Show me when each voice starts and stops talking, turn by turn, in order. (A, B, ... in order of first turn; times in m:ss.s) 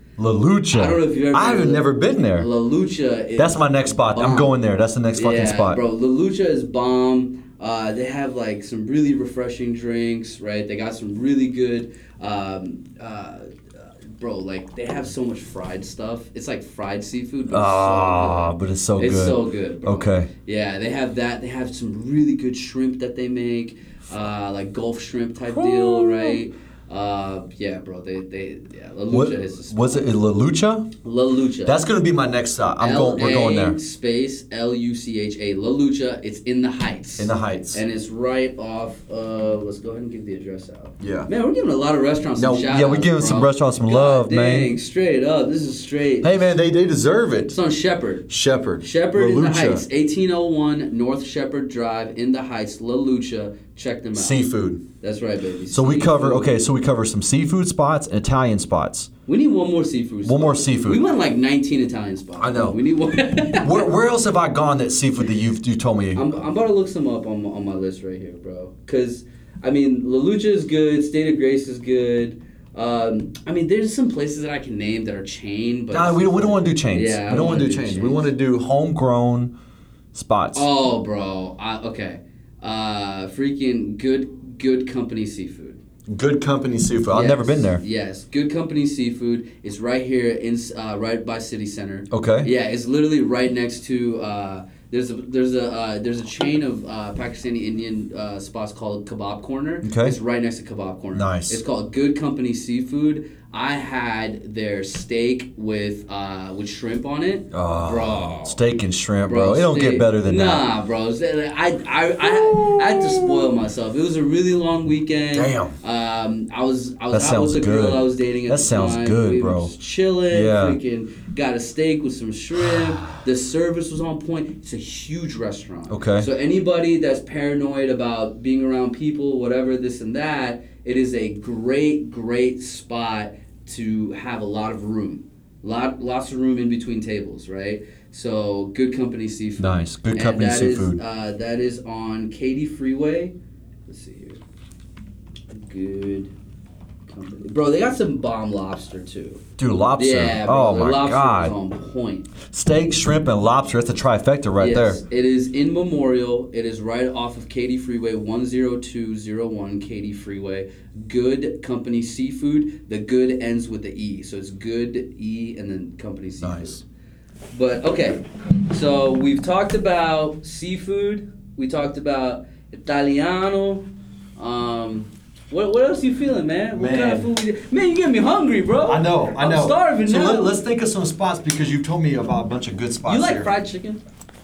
0:00.2-0:02.5 A
0:00.7-0:04.5 B
0:03.4-0:05.8 A
0:05.1-0:30.0 B
0:17.5-0:20.3 A
0:25.5-0:26.4 A
0:29.1-0:30.9 A
0:31.0-0:31.8 B
0:31.6-0:33.8 A
0:32.8-0:46.5 B
0:37.2-0:37.8 A
0:41.0-0:41.3 A
0:42.4-0:44.7 A
0:46.2-0:47.6 A
0:47.5-0:48.3 B
0:48.3-0:49.8 A
0:48.8-0:54.4 B
0:54.1-0:54.8 A
0:55.0-0:56.5 B
0:55.7-0:59.1 A
0:59.3-1:03.9 B
1:00.2-1:01.0 A
1:02.4-1:02.8 A
1:03.5-1:06.4 A
1:06.2-1:18.3 B
1:15.9-1:19.5 A
1:20.1-1:20.7 A
1:20.5-1:25.8 B
1:26.1-1:27.8 A
1:27.1-1:48.6 B
1:32.1-1:32.5 A
1:39.8-1:40.2 A
1:41.2-1:41.6 A
1:47.5-1:50.7 A
1:49.3-2:23.3 B
1:52.2-1:53.4 A
1:55.3-1:55.7 A
1:57.1-1:59.7 A
2:00.3-2:00.8 A
2:02.6-2:03.0 A
2:05.9-2:06.3 A
2:19.6-2:21.0 A
2:23.9-2:24.4 B
2:25.5-2:26.3 B
2:27.1-2:29.4 B
2:29.6-2:31.6 A
2:30.0-2:32.3 B
2:32.5-2:35.0 A
2:34.6-2:46.8 B
2:46.4-2:46.8 A
2:47.5-2:53.8 B
2:54.4-3:00.6 B
2:56.8-2:57.3 A
2:58.9-3:03.5 A
3:03.0-3:04.0 B